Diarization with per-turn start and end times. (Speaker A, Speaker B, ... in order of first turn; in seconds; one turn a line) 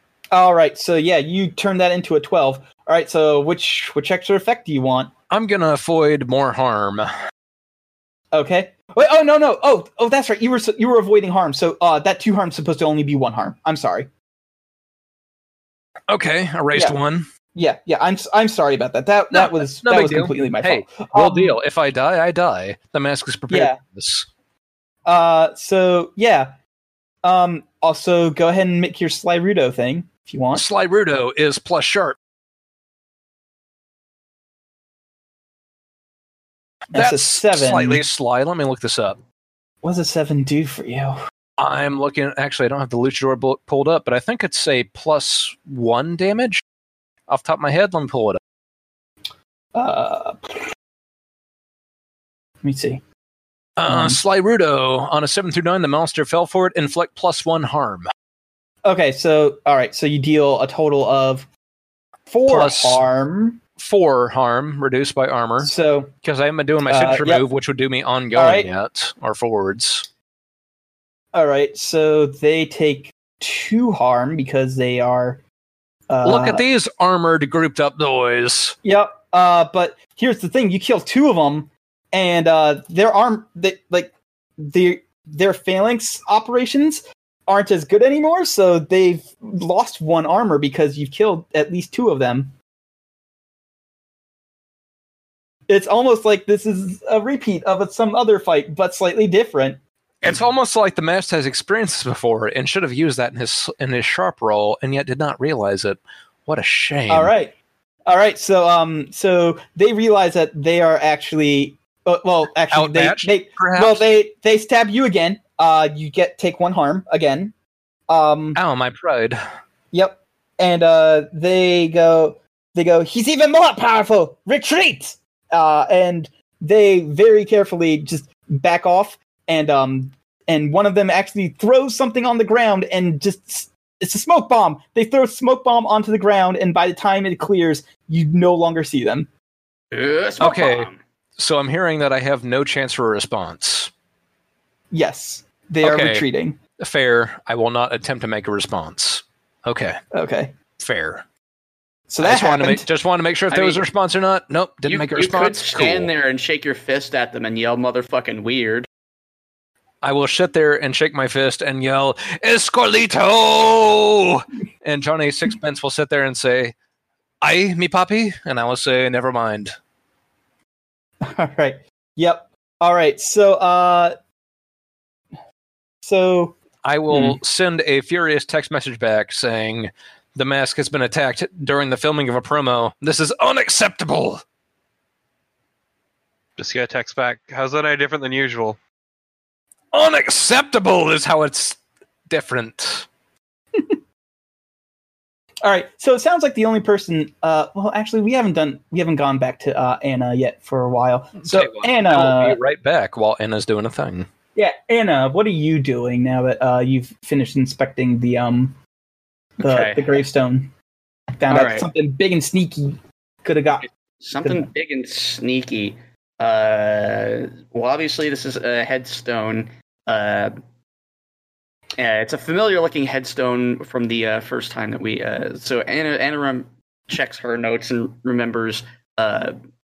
Speaker A: 0.3-5.1
Speaker B: 5.3-7.1
Speaker A: 8.3-14.1
Speaker B: 16.1-17.3
Speaker A: 17.5-21.6
Speaker B: 19.3-24.3
Speaker A: 23.5-23.8
Speaker A: 25.1-26.5
Speaker A: 27.2-30.6
Speaker B: 30.5-32.2
Speaker A: 36.9-38.0
Speaker B: 36.9-39.2
Speaker A: 39.8-41.2
Speaker B: 41.6-46.6
Speaker B: 47.3-48.4
Speaker A: 49.8-50.6
Speaker A: 52.6-53.0
Speaker B: 53.8-58.1
Speaker A: 53.9-54.2
Speaker A: 58.8-61.5
Speaker A: 62.3-63.6
Speaker B: 62.5-63.0
Speaker B: 63.8-70.1
Speaker A: 65.6-66.1
Speaker A: 66.9-67.5
Speaker A: 68.3-68.7
Speaker A: 71.3-75.4
Speaker A: 76.1-76.7
Speaker B: 76.2-78.8
Speaker A: 78.8-92.5
Speaker A: 95.7-99.8
Speaker B: 100.2-107.3
Speaker A: 107.1-107.5
Speaker A: 108.1-117.5
Speaker B: 112.7-114.0
Speaker A: 118.1-118.6
Speaker B: 118.5-119.4
Speaker A: 119.9-139.3
Speaker C: 139.9-141.0
Speaker B: 140.4-143.9
Speaker A: 144.9-146.6
Speaker B: 145.8-146.2
Speaker B: 146.8-150.0
Speaker A: 150.1-150.5
Speaker B: 150.8-151.2
Speaker A: 152.1-152.8
Speaker B: 152.2-156.1
Speaker C: 153.5-153.8
Speaker C: 154.9-158.9
Speaker B: 160.0-166.8
Speaker B: 167.4-169.7
Speaker A: 171.2-174.2
Speaker A: 176.0-176.6
Speaker B: 176.8-184.4
Speaker A: 177.1-177.4
Speaker D: 186.6-188.8
Speaker B: 189.9-193.1
Speaker A: 195.6-202.6
Speaker B: 201.4-204.3
Speaker A: 204.6-208.8
Speaker A: 209.6-210.7
Speaker C: 209.6-210.2
Speaker A: 211.4-213.9
Speaker C: 211.5-211.9
Speaker C: 214.2-220.5
Speaker A: 214.4-214.7
Speaker C: 222.0-229.6